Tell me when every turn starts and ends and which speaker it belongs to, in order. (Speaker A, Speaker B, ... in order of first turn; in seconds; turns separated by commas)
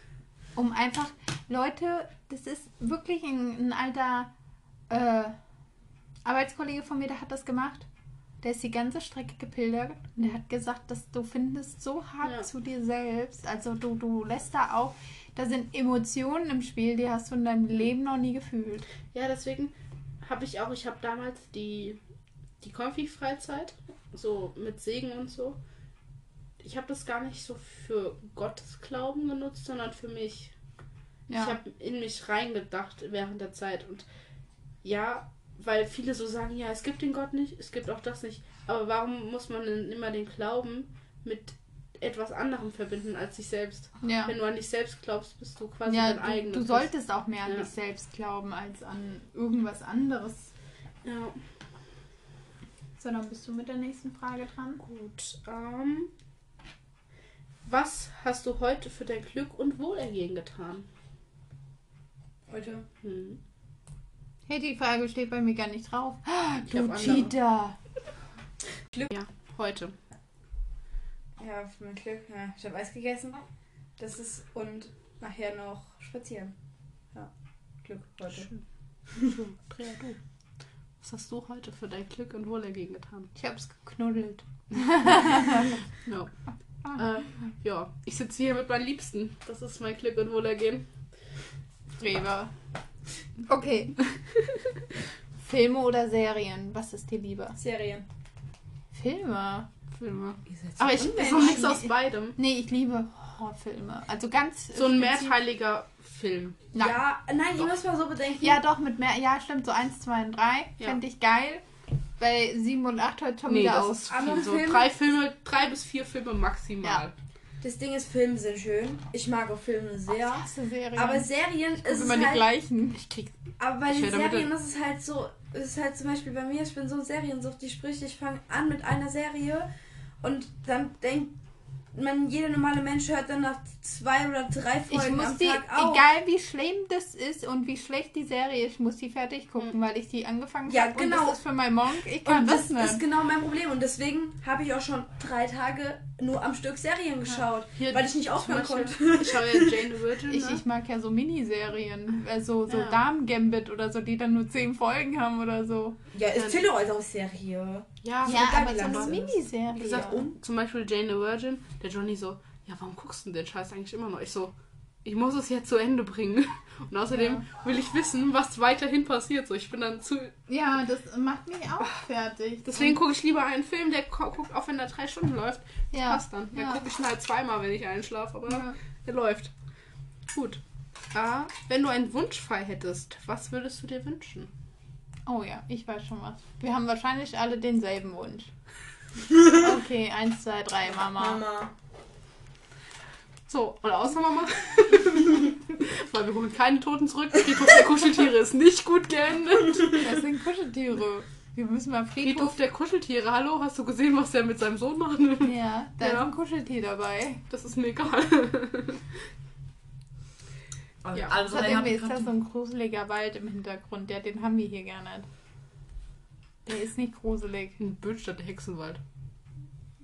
Speaker A: 0.6-4.3, Speaker A: 4.9-5.3, Speaker A: 6.2-7.9, Speaker A: 8.4-18.8, Speaker B: 19.1-22.0, Speaker B: 22.6-25.6, Speaker B: 26.6-30.5, Speaker A: 31.3-31.6, Speaker B: 31.3-34.0, Speaker B: 34.8-46.9, Speaker A: 44.0-44.3, Speaker A: 45.9-50.5, Speaker B: 51.0-51.4, Speaker A: 53.0-54.8, Speaker B: 54.8-56.1, Speaker B: 57.6-60.9, Speaker C: 62.5-62.9, Speaker B: 63.0-63.4, Speaker A: 64.5-67.8, Speaker B: 66.7-67.3, Speaker B: 69.1-70.0, Speaker C: 71.4-73.4, Speaker C: 74.0-76.5, Speaker C: 77.8-78.5, Speaker B: 78.3-78.6, Speaker B: 79.2-80.2, Speaker B: 81.0-83.3, Speaker A: 83.3-85.8, Speaker B: 84.8-85.5, Speaker B: 86.0-86.3, Speaker B: 86.9-90.8, Speaker A: 92.0-92.5, Speaker A: 93.5-94.0, Speaker A: 95.4-97.6, Speaker C: 97.5-98.0, Speaker A: 98.9-99.7, Speaker B: 99.9-102.4, Speaker C: 100.5-101.8, Speaker A: 101.4-105.3, Speaker B: 104.7-106.7, Speaker A: 106.7-107.0, Speaker C: 106.7-108.6, Speaker A: 108.4-111.6, Speaker A: 112.2-114.1, Speaker B: 113.5-117.1, Speaker C: 114.1-114.9, Speaker C: 117.6-122.5, Speaker A: 120.3-123.0, Speaker B: 122.9-123.3, Speaker C: 123.6-129.7, Speaker B: 123.9-124.5, Speaker C: 130.2-131.3, Speaker C: 131.9-136.0, Speaker A: 134.9-143.0, Speaker C: 140.7-141.4, Speaker C: 142.2-149.9, Speaker B: 147.8-150.6, Speaker A: 150.3-156.0, Speaker B: 152.7-153.0, Speaker C: 156.1-160.3, Speaker B: 156.3-156.6, Speaker B: 158.0-159.1, Speaker A: 158.2-160.2, Speaker B: 159.7-164.5, Speaker B: 165.0-170.3, Speaker A: 167.1-167.4, Speaker A: 170.5-173.0, Speaker B: 172.6-179.5, Speaker A: 175.9-176.8, Speaker A: 178.5-178.7, Speaker B: 180.3-180.6, Speaker B: 181.1-184.5, Speaker A: 185.2-188.5, Speaker A: 189.4-191.4, Speaker C: 191.1-191.7, Speaker B: 193.5-200.1, Speaker A: 199.9-202.6, Speaker B: 202.2-206.3, Speaker A: 205.4-207.4, Speaker B: 207.5-209.1, Speaker C: 211.0-212.3, Speaker A: 211.4-215.3, Speaker A: 216.7-217.8, Speaker B: 217.8-219.0